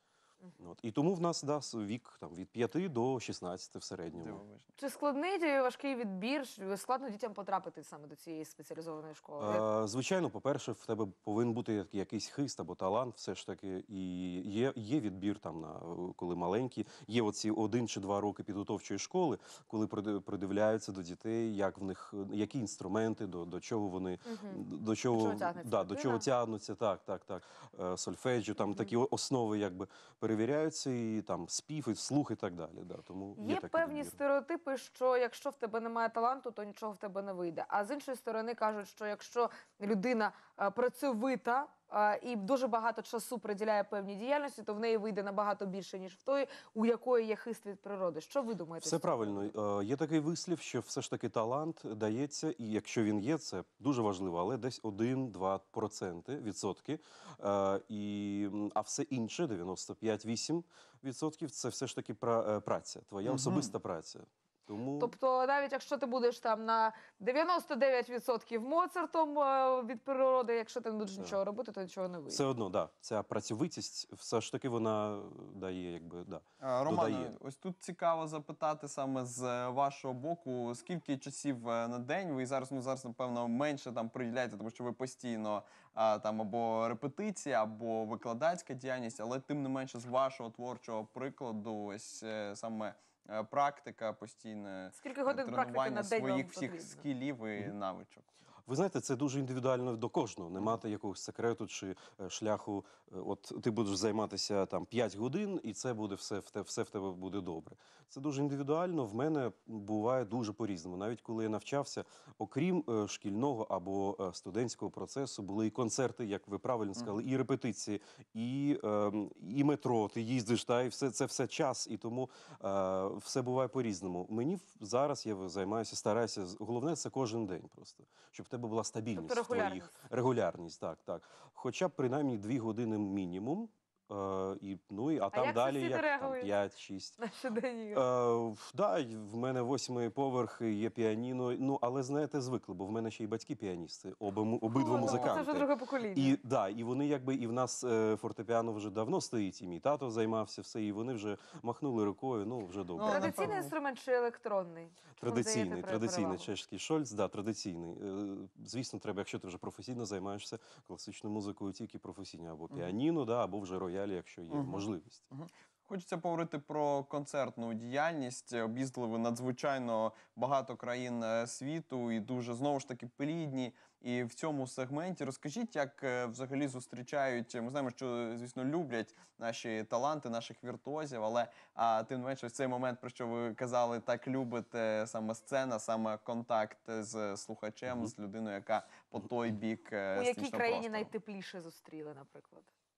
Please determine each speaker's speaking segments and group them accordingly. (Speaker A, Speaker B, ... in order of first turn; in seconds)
Speaker A: 0.6-4.4, 9.4-34.2, 48.8-65.1, 72.3-77.3, 98.7-137.2, 137.9-153.5, 155.2-165.2
Speaker B: 4.1-4.7, 63.2-63.7, 76.6-98.3, 144.9-145.4, 153.0-153.7, 162.7-162.9, 164.5-191.1
Speaker C: 4.8-9.7, 24.3-26.3, 33.4-49.5, 65.0-72.4, 94.9-97.1, 129.1-129.9, 135.3-136.5, 137.2-138.1, 144.7-146.4, 153.0-156.5, 190.1-192.7